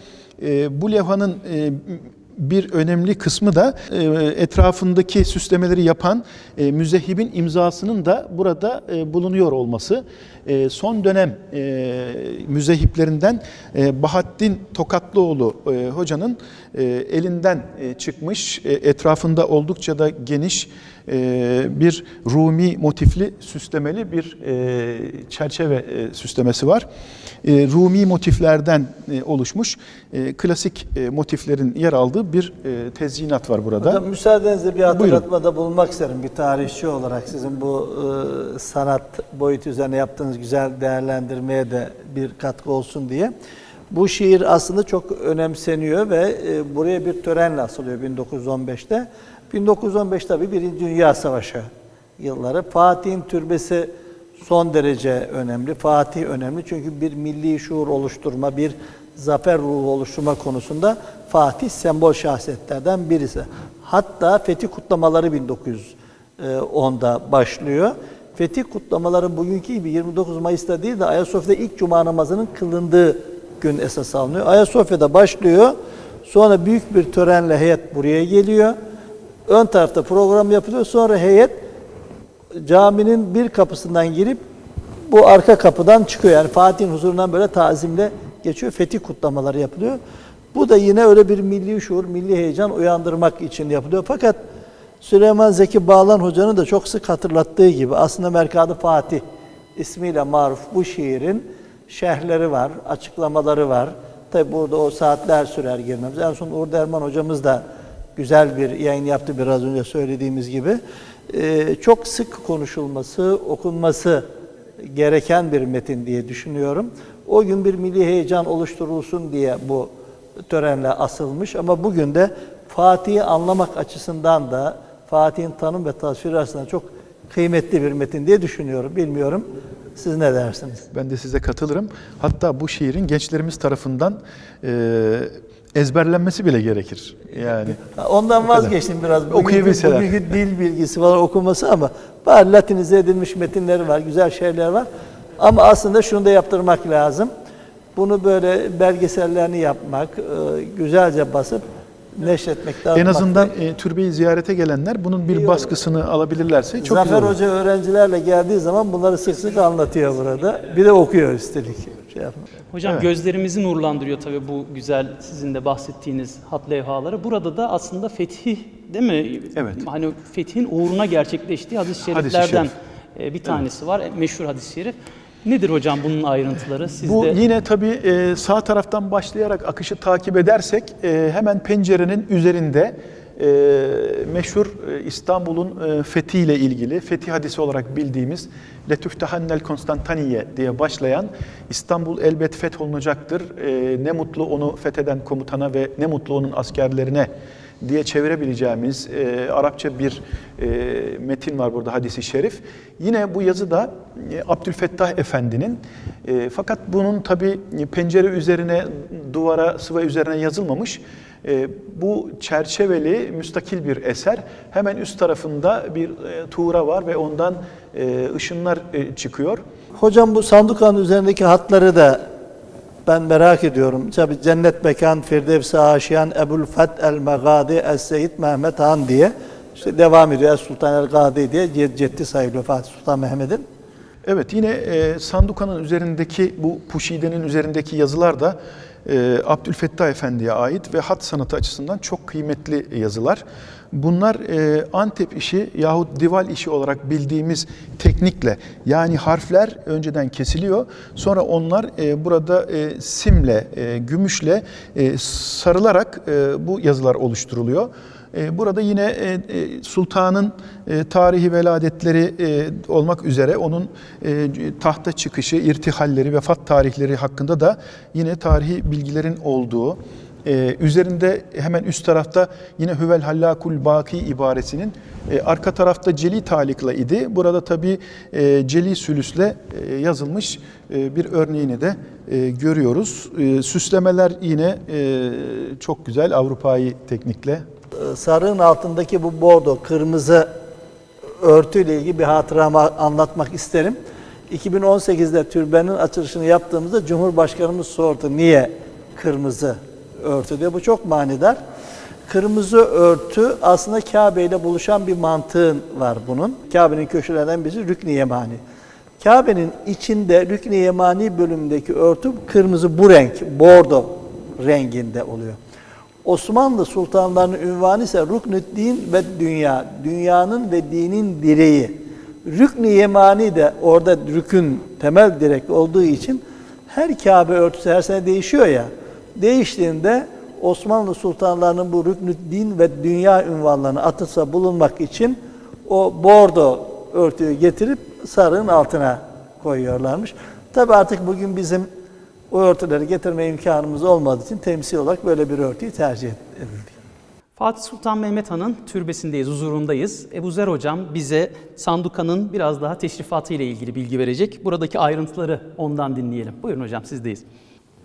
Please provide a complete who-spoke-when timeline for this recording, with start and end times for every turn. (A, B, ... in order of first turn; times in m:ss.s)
0:00.4-0:26.8 A
0:27.4-0:34.0 A
0:33.8-0:43.3 B
0:34.9-0:35.2 A
0:43.9-0:51.7 B
0:52.2-1:18.8 B
1:19.5-1:21.6 B
1:22.5-1:24.4 B
1:25.1-1:30.0 B
1:30.5-1:34.4 B
1:35.0-1:39.2 B
1:39.8-1:47.6 B
1:48.2-1:54.3 B
1:54.8-1:59.9 B
2:00.4-2:10.9 B
2:10.9-2:17.8 A
2:17.8-2:24.9 B
2:18.4-2:18.7 A
2:19.3-2:20.1 A
2:25.4-2:27.3 B
2:28.0-2:33.5 B
2:32.9-2:37.4 A
2:36.8-2:42.5 B
2:42.7-2:57.4 C
2:49.6-2:49.8 A
2:52.1-2:52.7 A
2:57.0-3:17.3 A
3:17.8-3:39.6 A
3:40.0-3:42.3 B
3:43.0-3:53.6 B
3:54.2-4:47.6 A
4:47.9-4:50.5 B
4:51.4-4:54.0 B
4:54.5-5:01.6 B
5:02.3-5:08.6 B
5:09.2-5:15.6 B
5:16.2-5:41.9 B
5:42.5-5:46.9 B
5:47.6-5:57.4 C